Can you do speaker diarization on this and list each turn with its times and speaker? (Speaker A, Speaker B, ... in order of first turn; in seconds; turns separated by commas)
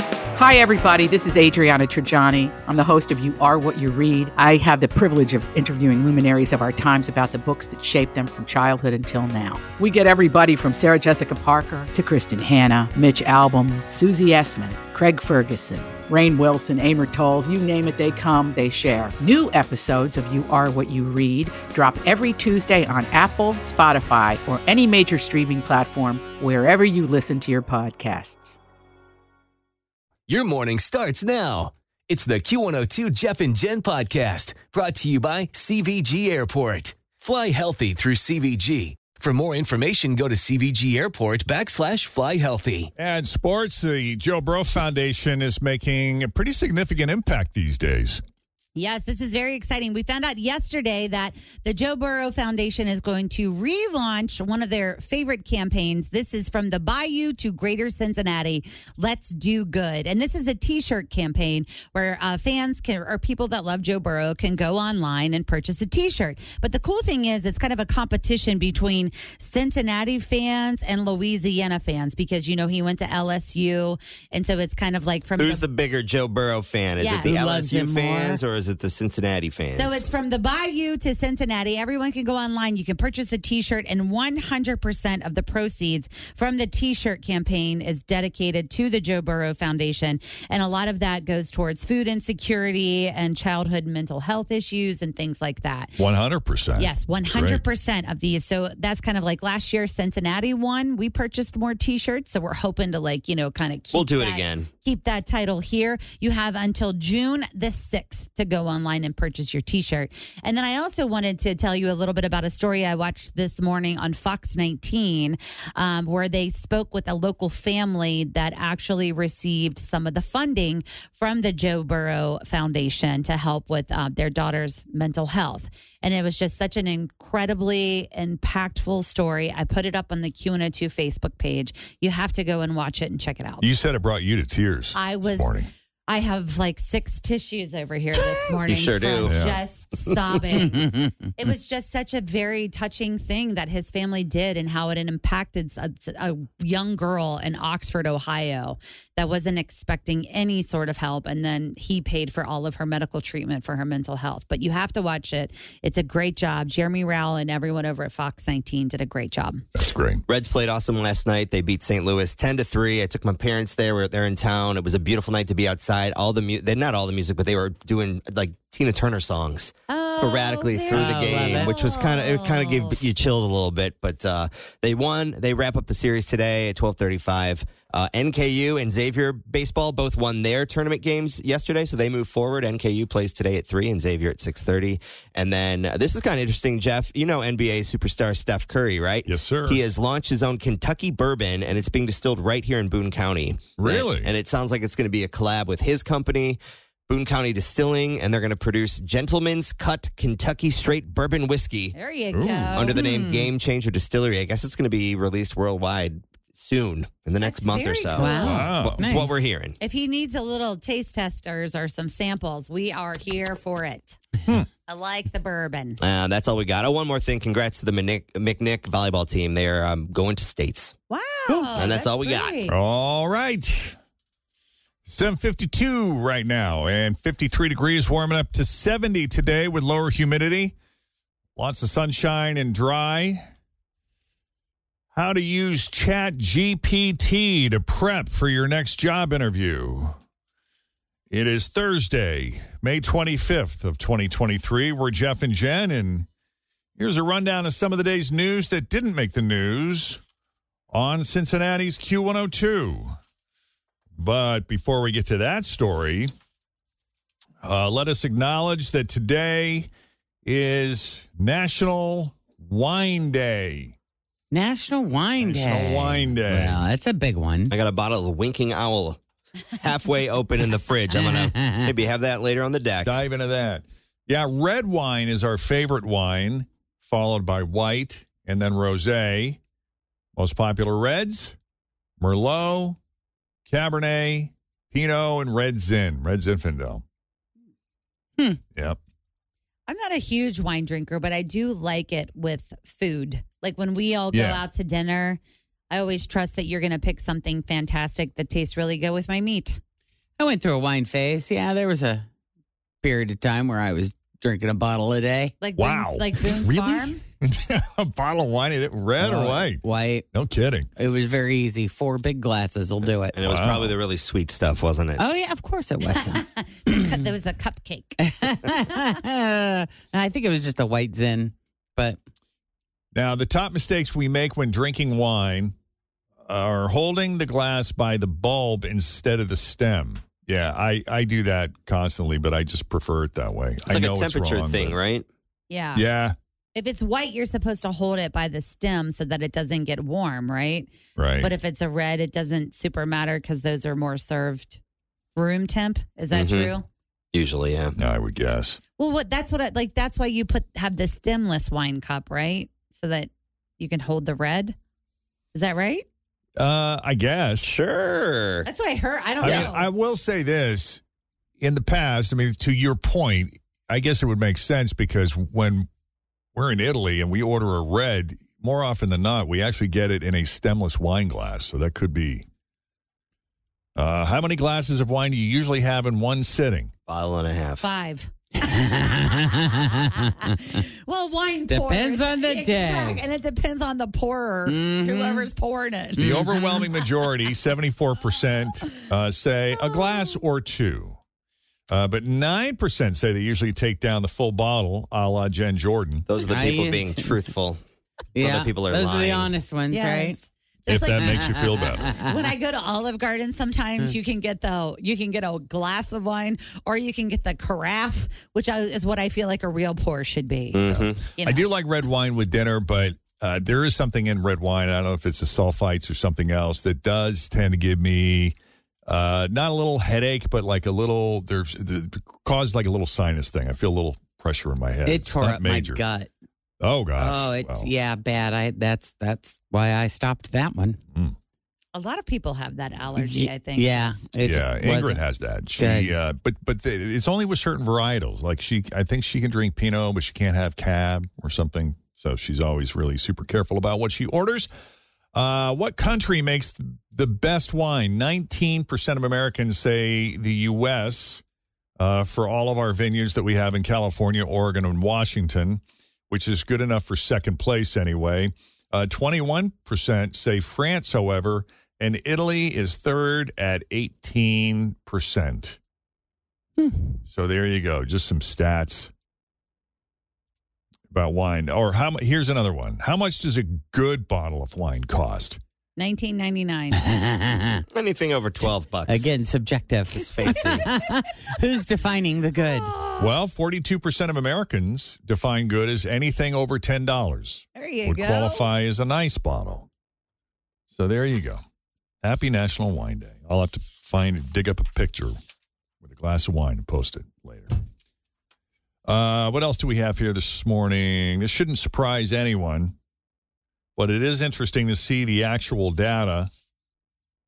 Speaker A: 0.3-28.6, Speaker B: 30.3-42.9, Speaker C: 43.0-48.2, Speaker D: 48.8-75.6, Speaker E: 75.4-80.0, Speaker D: 77.0-77.3, Speaker F: 77.2-78.4, Speaker D: 79.8-96.0, Speaker C: 96.0-97.6, Speaker D: 96.8-133.7, Speaker E: 103.9-104.7, Speaker C: 133.6-135.7, Speaker D: 134.9-135.5, Speaker D: 136.1-159.6, Speaker E: 138.5-139.3, Speaker C: 139.2-139.6, Speaker C: 159.7-160.2, Speaker E: 160.3-201.9, Speaker D: 169.9-173.0, Speaker F: 170.9-171.7, Speaker C: 189.2-189.8, Speaker C: 193.8-194.3, Speaker D: 201.9-203.0, Speaker C: 202.3-202.9, Speaker E: 202.8-209.8, Speaker F: 202.9-203.5, Speaker D: 207.4-208.7, Speaker F: 208.2-209.4, Speaker C: 208.4-209.0, Speaker D: 209.8-214.2, Speaker D: 214.9-216.0, Speaker E: 216.0-220.9, Speaker D: 221.1-222.8, Speaker F: 221.5-221.9, Speaker E: 221.7-222.6, Speaker C: 222.7-223.9, Speaker C: 225.0-230.7, Speaker C: 231.6-233.4, Speaker C: 235.1-240.2, Speaker C: 241.3-246.3, Speaker C: 247.0-250.2, Speaker C: 250.9-253.2, Speaker C: 254.2-256.3, Speaker C: 257.6-259.9, Speaker C: 260.4-263.9, Speaker F: 264.5-267.7, Speaker C: 265.4-266.8, Speaker E: 267.7-273.2, Speaker F: 271.2-271.9, Speaker C: 273.0-279.6, Speaker C: 280.4-281.6, Speaker C: 282.2-283.0, Speaker C: 283.7-287.0, Speaker D: 289.9-299.8, Speaker C: 294.3-294.6, Speaker F: 300.4-302.3, Speaker F: 303.0-305.5, Speaker D: 305.6-307.2, Speaker C: 305.8-309.8, Speaker F: 309.2-310.2, Speaker C: 310.3-310.9, Speaker F: 310.9-313.4, Speaker E: 313.3-315.2, Speaker C: 313.4-313.9, Speaker F: 315.2-317.2, Speaker D: 316.1-318.5, Speaker F: 318.2-322.2, Speaker C: 323.1-325.7, Speaker C: 326.4-335.0, Speaker E: 333.9-335.3, Speaker D: 335.7-336.0, Speaker C: 335.9-336.4, Speaker D: 336.7-344.8, Speaker C: 341.2-341.5, Speaker D: 345.4-346.9, Speaker E: 346.3-346.7, Speaker E: 347.3-348.0, Speaker C: 348.0-348.8, Speaker D: 349.0-354.8, Speaker D: 355.5-356.0, Speaker C: 356.6-357.7, Speaker E: 357.6-358.7, Speaker D: 358.6-359.9, Speaker C: 359.4-361.0, Speaker E: 359.4-359.7, Speaker C: 361.6-365.9, Speaker C: 366.5-372.5, Speaker C: 373.9-376.9, Speaker E: 377.1-377.9, Speaker D: 377.8-378.3, Speaker F: 378.6-380.8, Speaker D: 380.4-386.4, Speaker F: 381.7-383.2, Speaker F: 384.7-385.5, Speaker F: 386.2-386.8, Speaker C: 386.2-391.2, Speaker C: 391.9-396.3, Speaker E: 396.3-397.8, Speaker F: 396.5-397.3, Speaker F: 398.3-400.4, Speaker E: 398.4-399.5, Speaker D: 399.9-411.7, Speaker C: 400.9-402.2, Speaker F: 401.2-402.5, Speaker E: 410.7-411.3, Speaker C: 410.9-426.0, Speaker F: 425.1-426.3, Speaker C: 426.8-427.9, Speaker F: 427.2-431.0, Speaker D: 431.9-434.1, Speaker F: 433.2-435.2, Speaker C: 434.4-444.7, Speaker F: 435.8-436.1, Speaker C: 445.3-451.4, Speaker C: 452.0-465.8, Speaker F: 466.8-467.2, Speaker C: 467.2-469.1, Speaker C: 471.1-475.6, Speaker D: 476.0-477.1, Speaker F: 476.9-477.8, Speaker E: 477.9-479.3, Speaker F: 479.1-482.9, Speaker E: 480.1-480.9, Speaker D: 480.5-481.0, Speaker D: 482.6-483.3, Speaker C: 483.2-489.9, Speaker D: 487.8-488.7, Speaker C: 490.9-491.6, Speaker C: 492.2-495.4, Speaker C: 496.0-497.7, Speaker C: 499.1-502.9, Speaker C: 503.9-506.5